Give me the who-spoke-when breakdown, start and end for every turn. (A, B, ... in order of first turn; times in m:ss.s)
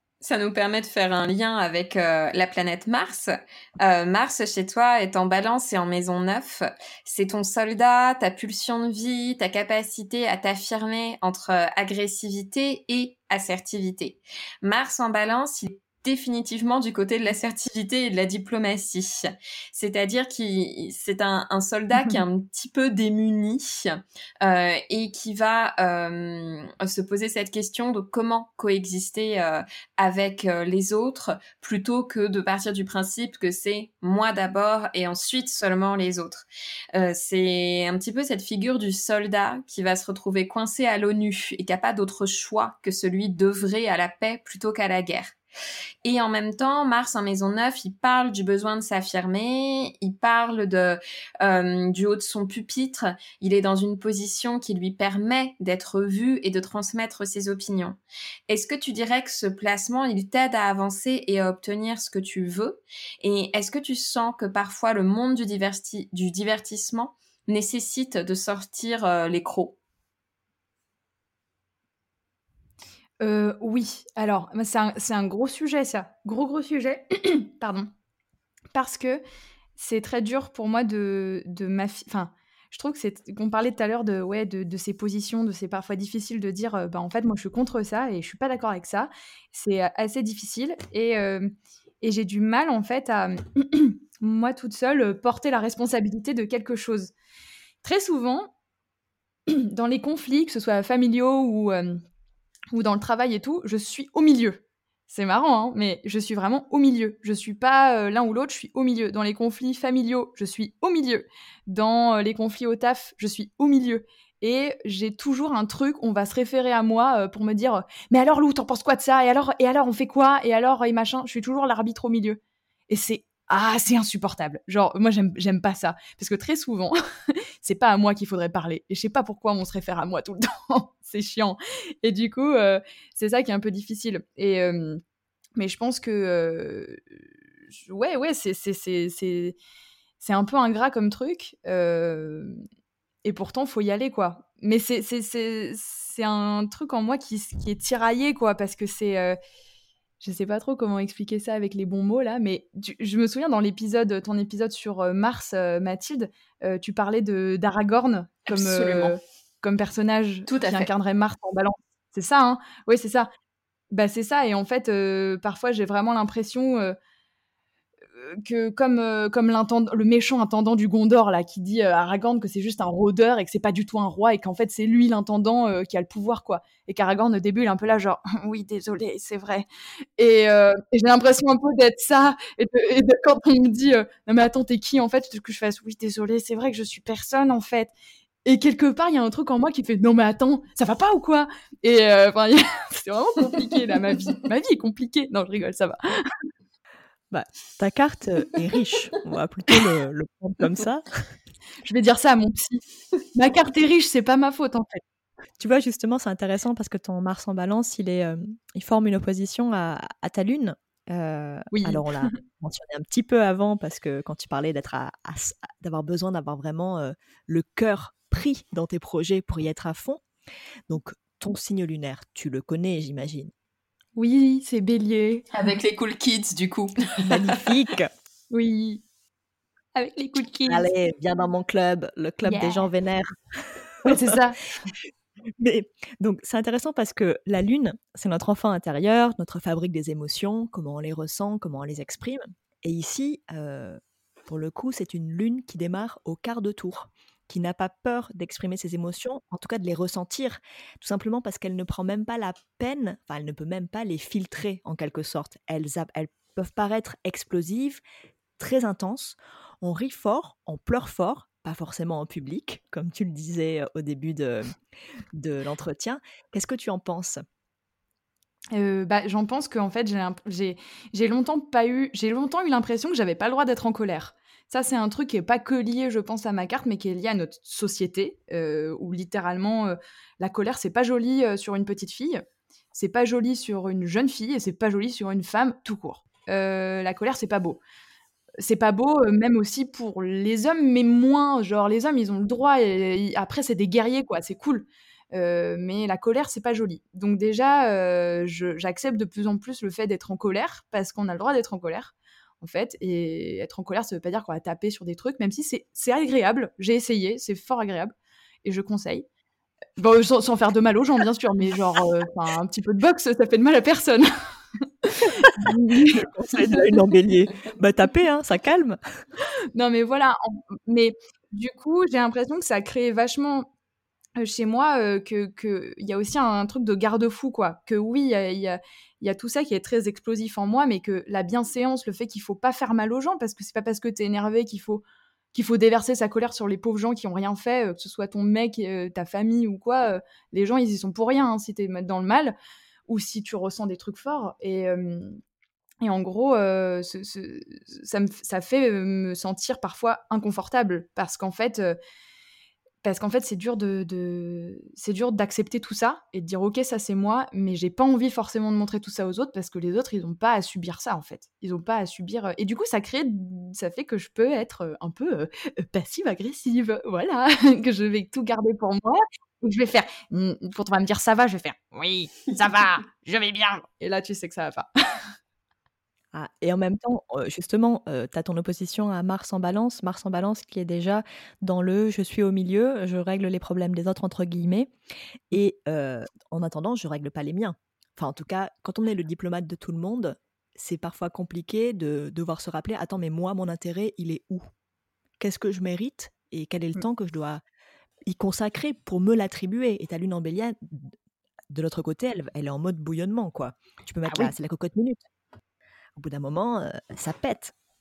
0:00.2-0:45.4 A
0:46.0-1:09.8 A
1:13.2-1:17.9 B
1:18.7-1:19.2 B
1:19.8-1:37.1 B
1:37.8-1:38.5 B
1:39.5-1:42.0 B
1:42.7-2:15.0 B
2:15.6-2:17.0 B
2:17.8-2:19.6 B
2:20.2-2:22.6 B
2:23.2-2:29.4 B
2:30.2-2:43.3 B
2:38.5-2:39.1 A
2:40.5-2:40.9 A
2:43.9-2:47.0 B
2:48.2-2:59.7 B
3:00.2-3:07.9 B
3:08.4-3:16.4 B
3:17.3-3:21.2 C
3:21.8-3:22.8 B
3:23.3-3:25.0 B
3:25.6-3:40.2 C
3:31.7-3:32.4 B
3:40.9-3:43.5 C
3:44.2-3:45.5 B
3:45.5-3:47.4 A
3:47.3-3:48.1 C
3:48.5-3:49.0 B
3:50.0-3:50.9 B
3:50.7-3:53.3 C
3:52.4-3:52.9 B
3:54.0-3:54.4 C
3:54.0-3:54.9 B
3:55.6-4:18.0 C
4:18.6-4:24.8 C
4:25.3-4:27.4 C
4:28.7-4:42.4 B
4:42.9-4:47.8 B
4:48.6-5:09.3 B
5:10.0-5:16.8 B
5:16.1-5:19.0 C
5:19.8-5:23.7 B
5:24.4-5:35.0 B
5:35.5-5:42.6 B
5:43.1-5:45.4 B
5:46.0-5:52.0 B
5:53.0-6:14.9 B
6:16.3-6:24.9 C
6:25.5-6:34.7 C
6:35.4-6:37.6 C
6:38.3-6:41.1 C
6:41.7-6:45.2 C
6:44.3-6:44.5 B
6:46.2-6:47.7 C